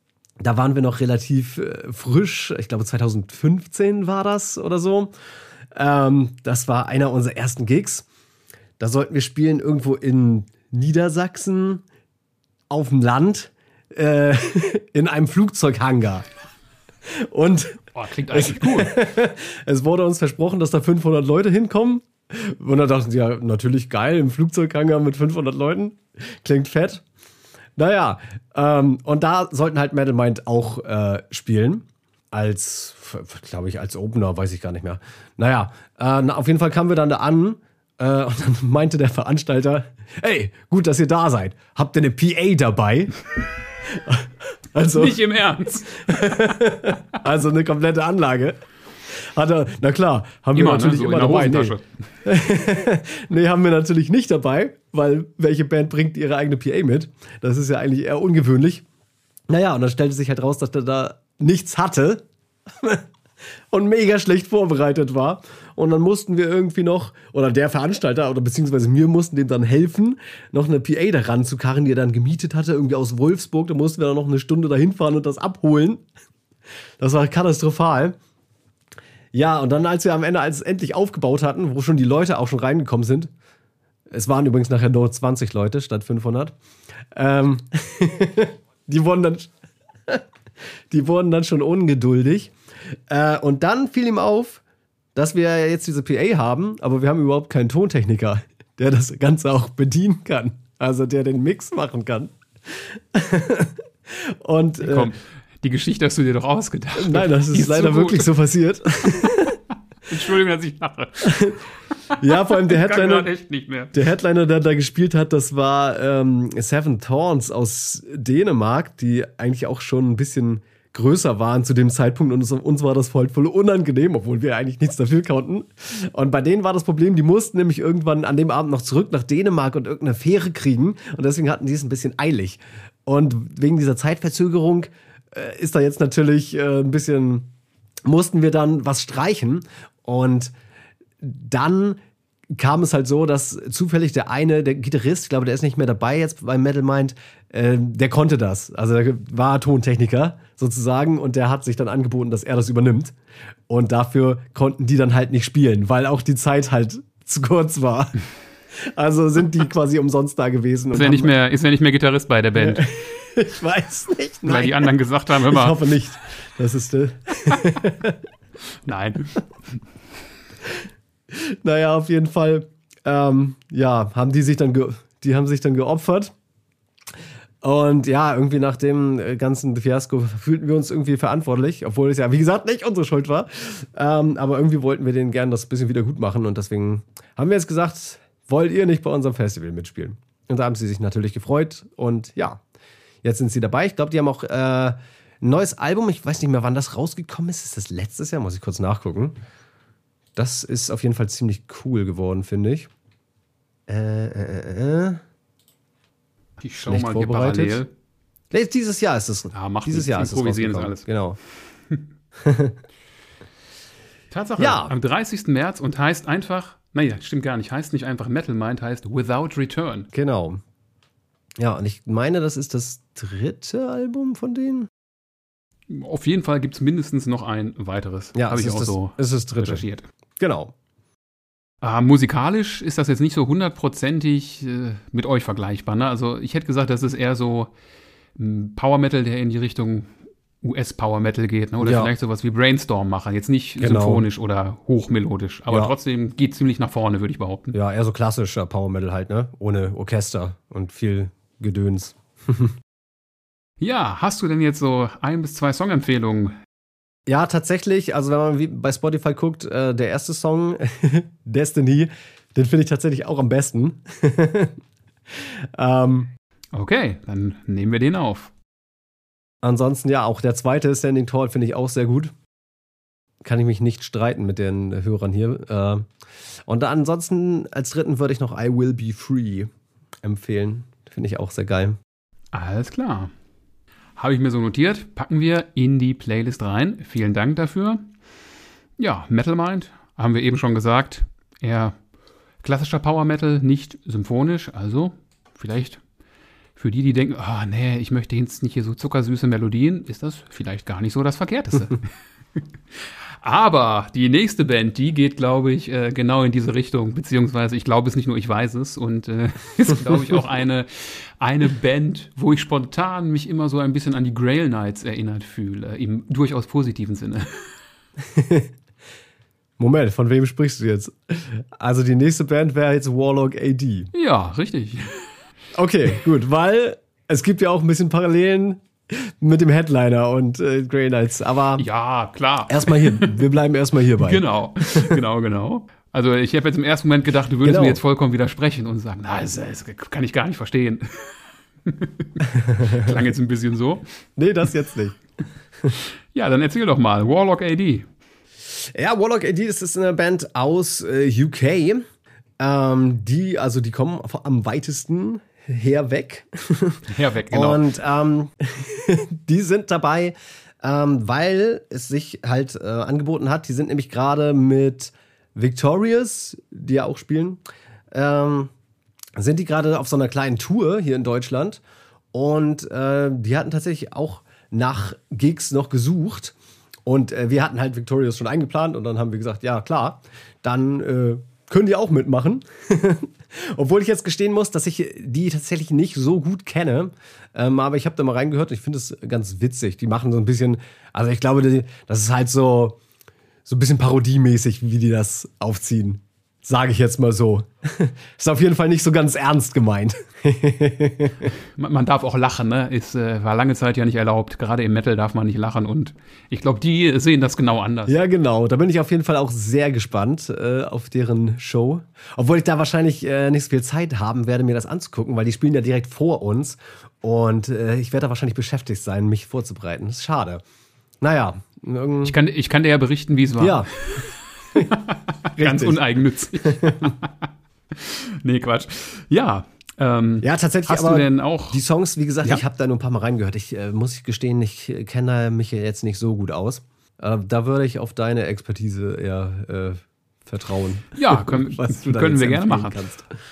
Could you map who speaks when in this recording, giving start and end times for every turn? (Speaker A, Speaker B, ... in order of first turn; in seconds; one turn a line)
Speaker A: 0.4-5.1
Speaker A: 5.7-8.1
Speaker A: 8.8-11.8
Speaker A: 12.7-16.2
Speaker A: 17.1-27.0
Speaker B: 17.9-18.9
Speaker A: 27.8-43.1
Speaker A: 43.9-45.2
Speaker B: 44.9-46.5
Speaker A: 46.0-58.9
Speaker B: 50.5-51.9
Speaker A: 59.5-63.0
Speaker A: 63.7-76.0
Speaker A: 77.0-78.2
Speaker A: 79.3-83.3
Speaker A: 84.1-86.5
Speaker A: 87.1-89.5
Speaker A: 90.9-92.5
Speaker A: 93.1-94.6
Speaker A: 95.2-105.1
Speaker B: 104.8-108.3
Speaker A: 107.0-109.6
Speaker B: 109.1-109.3
Speaker B: 110.1-111.6
Speaker A: 111.2-111.6
Speaker B: 112.1-114.0
Speaker A: 112.2-113.3
Speaker A: 113.9-137.5
Speaker A: 138.1-140.5
Speaker A: 141.2-142.0
Speaker A: 142.5-153.2
Speaker A: 153.7-158.2
Speaker A: 158.8-161.3
Speaker B: 160.9-162.9
Speaker A: 162.6-168.2
Speaker B: 164.4-165.8
Speaker B: 168.8-169.4
Speaker A: 170.7-176.3
Speaker A: 177.6-192.6
Speaker A: 193.2-199.4
Speaker A: 200.3-202.9
Speaker A: 203.9-205.2
Speaker B: 206.6-207.9
Speaker A: 206.9-207.8
Speaker A: 208.5-211.4
Speaker B: 209.5-211.1
Speaker A: 212.4-212.8
Speaker B: 214.3-220.1
Speaker A: 214.6-214.9
Speaker A: 220.1-220.6
Speaker A: 221.6-224.9
Speaker B: 225.9-230.1
Speaker A: 228.4-229.8
Speaker A: 230.4-230.7
Speaker B: 231.8-237.7
Speaker B: 238.4-240.1
Speaker B: 240.6-247.8
Speaker A: 241.8-242.1
Speaker A: 243.8-244.3
Speaker A: 247.7-252.7
Speaker B: 253.8-256.6
Speaker A: 257.3-264.8
Speaker A: 265.3-266.3
Speaker B: 266.7-268.5
Speaker A: 269.6-272.3
Speaker A: 273.4-276.1
Speaker A: 276.7-279.7
Speaker A: 280.2-282.0
Speaker B: 282.5-283.3
Speaker B: 284.2-288.0
Speaker B: 289.0-291.9
Speaker B: 292.6-296.0
Speaker B: 296.8-302.0
Speaker B: 303.4-317.6
Speaker A: 318.2-318.7
Speaker A: 319.8-324.1
Speaker B: 324.1-325.3
Speaker A: 325.8-331.9
Speaker B: 331.8-333.4
Speaker A: 332.7-335.2
Speaker B: 334.2-341.3
Speaker A: 337.6-338.0
Speaker B: 341.9-344.1
Speaker A: 342.6-343.1
Speaker A: 344.4-345.2
Speaker B: 346.3-348.1
Speaker A: 348.9-352.0
Speaker A: 352.6-367.6
Speaker B: 357.1-357.8
Speaker A: 368.1-368.7
Speaker A: 369.4-371.8
Speaker A: 372.3-376.6
Speaker A: 377.1-393.0
Speaker A: 393.7-401.5
Speaker B: 401.8-408.2
Speaker A: 408.1-420.6
Speaker A: 421.2-422.4
Speaker B: 422.2-431.8
Speaker A: 423.6-423.9
Speaker A: 425.6-426.0
Speaker A: 426.6-427.0
Speaker A: 430.4-443.3
Speaker B: 441.1-443.0